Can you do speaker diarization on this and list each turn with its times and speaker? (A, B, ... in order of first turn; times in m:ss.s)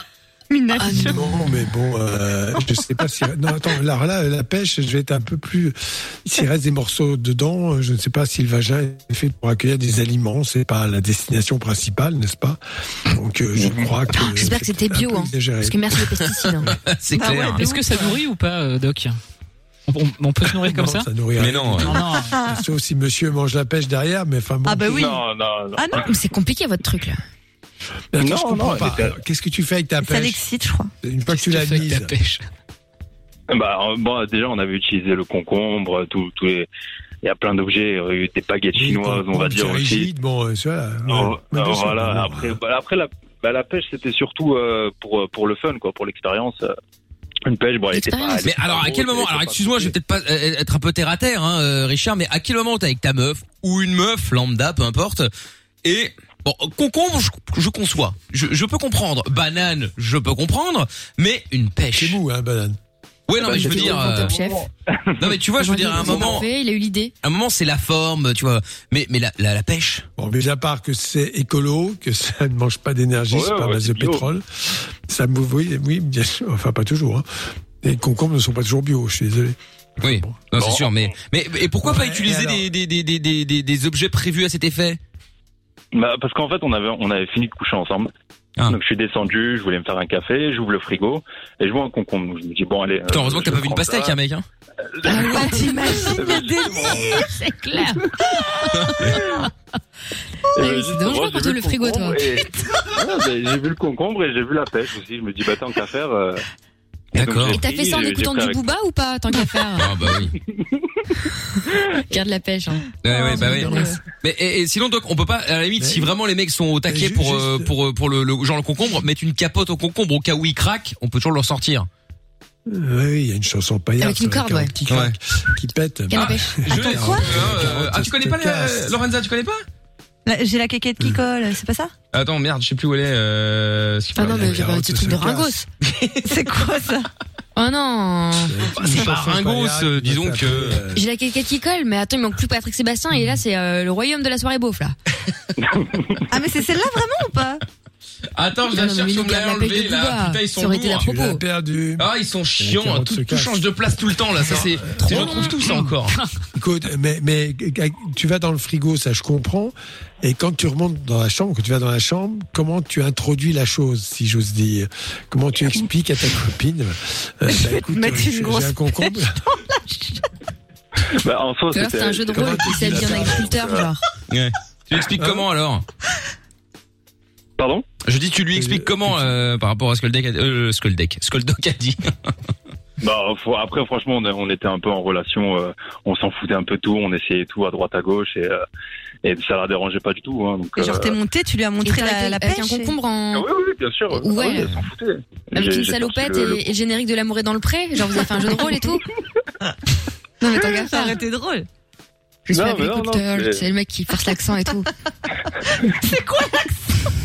0:00.5-0:01.5 A
0:00.8-0:01.3 B
0:01.0-0:16.0 C
0:14.2-0:16.7 B
0:16.7-0:17.6 D
0:17.2-0:18.2 A
0:17.5-0:19.2 E
0:19.9-0:21.1 E
0:20.5-0:24.9 C
0:21.4-0:21.9 D
0:21.9-0:22.4 E
0:24.7-0:25.2 A
0:24.9-0:26.0 F
0:25.8-0:26.1 A
0:25.9-0:27.2 B
0:28.1-0:30.4 C
0:28.2-0:29.2 F
0:30.0-0:30.9 A
0:31.0-0:32.1 C
0:31.3-0:32.4 E
0:33.5-0:36.7 F
0:37.2-0:40.1 F
0:38.8-0:42.6 C
0:41.1-0:46.7 F
0:47.5-0:50.0 F
0:47.9-0:48.5 B
0:48.4-0:55.3 D
0:55.8-1:02.2 D
1:02.0-1:02.8 C
1:03.3-1:04.4 D
1:03.4-1:05.3 F
1:03.4-1:04.6 B
1:05.2-1:06.5 D
1:05.6-1:07.1 B
1:07.2-1:10.1 D
1:10.2-1:17.3 C
1:13.3-1:14.2 F
1:17.8-1:20.4 C
1:20.0-1:25.0 D
1:20.6-1:21.1 F
1:21.8-1:22.7 C
1:25.9-1:28.1 F
1:28.7-1:34.2 F
1:33.1-1:34.4 D
1:35.0-1:35.6 F
1:35.0-1:36.1 B
1:35.1-1:37.2 A
1:36.1-1:37.2 F
1:36.7-1:38.0 B
1:38.7-1:39.2 B
1:40.6-1:46.4 F
1:40.6-1:42.2 B
1:47.2-1:47.6 D
1:47.2-1:48.6 F
1:47.5-1:49.9 B
1:49.8-1:50.4 D
1:52.1-1:53.9 B
1:53.0-2:01.9 D
1:53.1-1:53.9 A
1:55.8-1:56.1 C
1:56.9-1:57.7 C
2:02.7-2:09.0 C
2:04.0-2:04.7 B
2:04.9-2:05.2 D
2:06.1-2:06.6 B
2:06.2-2:09.6 D
2:06.7-2:07.5 A
2:10.3-2:11.9 A
2:12.1-2:14.7 D
2:14.2-2:15.7 B
2:14.2-2:15.6 C
2:15.8-2:16.3 D
2:16.2-2:17.1 A
2:17.6-2:18.6 B
2:18.5-2:21.0 C
2:18.8-2:20.8 D
2:21.0-2:25.0 B
2:25.6-2:26.2 F
2:26.3-2:27.6 A
2:28.4-2:31.1 D
2:28.7-2:31.4 B
2:31.0-2:33.6 C
2:32.0-2:36.2 D
2:34.4-2:35.7 C
2:36.5-2:49.4 C
2:47.5-2:49.2 A
2:51.1-2:53.9 F
2:51.7-2:54.0 B
2:52.3-2:53.5 C
2:54.3-2:55.8 D
2:55.2-2:55.4 C
2:57.6-2:57.9 F
2:58.0-3:02.3 D
2:58.5-2:59.4 C
3:03.0-3:08.6 F
3:09.2-3:11.2 F
3:10.8-3:12.9 A
3:11.8-3:13.5 B
3:13.3-3:16.6 F
3:14.1-3:14.8 B
3:15.5-3:19.0 B
3:20.4-3:21.2 B
3:20.7-3:21.7 A
3:22.5-3:23.6 F
3:22.5-3:24.9 B
3:25.8-3:27.1 A